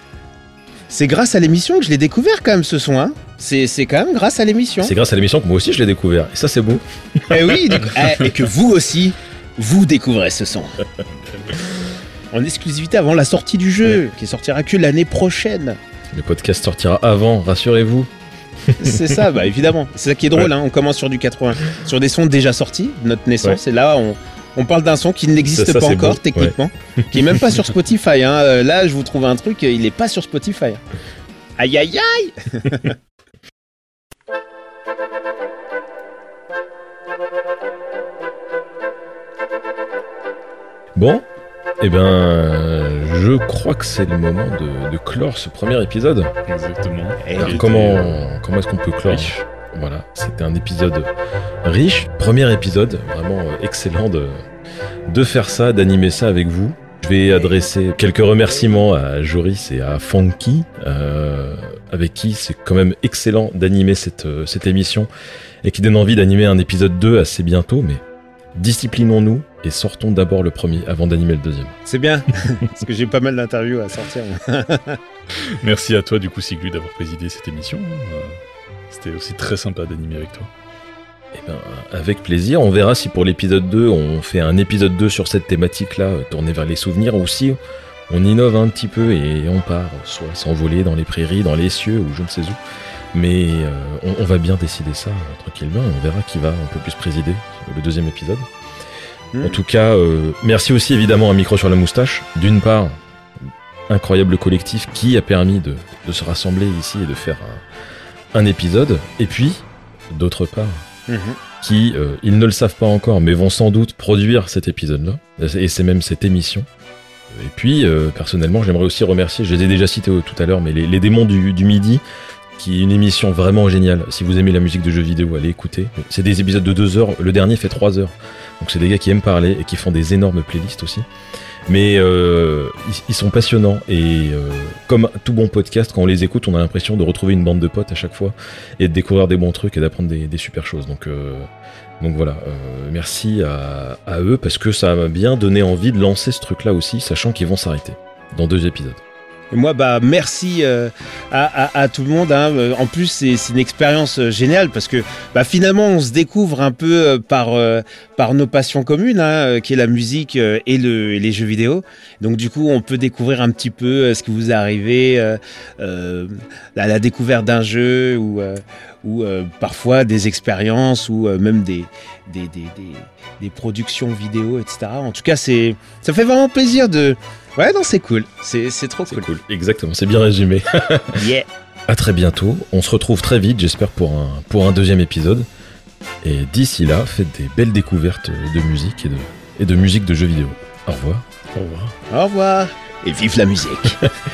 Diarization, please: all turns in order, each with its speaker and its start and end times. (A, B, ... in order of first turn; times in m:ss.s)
0:00.9-0:04.9 A
0:04.8-0:07.8 B
0:07.3-0:10.8 A
0:11.2-0:11.6 C
0:12.3-0:15.8 A
0:16.1-0:18.1 B
0:18.6-0:19.2 B
0:18.8-0:30.8 A
0:25.5-0:27.4 B
0:31.6-0:33.0 A
0:41.0-0:41.2 B
0:41.8-0:46.3 B
0:46.5-0:48.2 C
0:47.2-0:47.6 A
0:47.4-0:51.1 B
0:49.1-0:49.4 C
0:51.6-0:54.4 B
0:55.1-1:05.1 B
1:05.6-1:08.0 B
1:08.6-1:11.7 B
1:11.8-1:15.0 A
1:15.4-1:18.4 C
1:18.9-1:20.5 C
1:21.3-1:27.6 B
1:28.1-1:32.6 B
1:33.1-1:38.5 B
1:39.4-1:43.0 B
1:43.9-1:47.6 B
1:48.3-1:50.8 B
1:51.1-1:51.4 A
1:51.6-1:56.7 B
1:57.3-2:02.0 B
2:02.6-2:11.0 B
2:11.7-2:21.5 B
2:22.0-2:29.0 B
2:29.5-2:59.3 A
2:59.1-3:01.3 B
3:01.2-3:01.5 A
3:01.9-3:05.5 B
3:06.2-3:11.2 B
3:11.5-3:11.9 C
3:12.1-3:14.1 A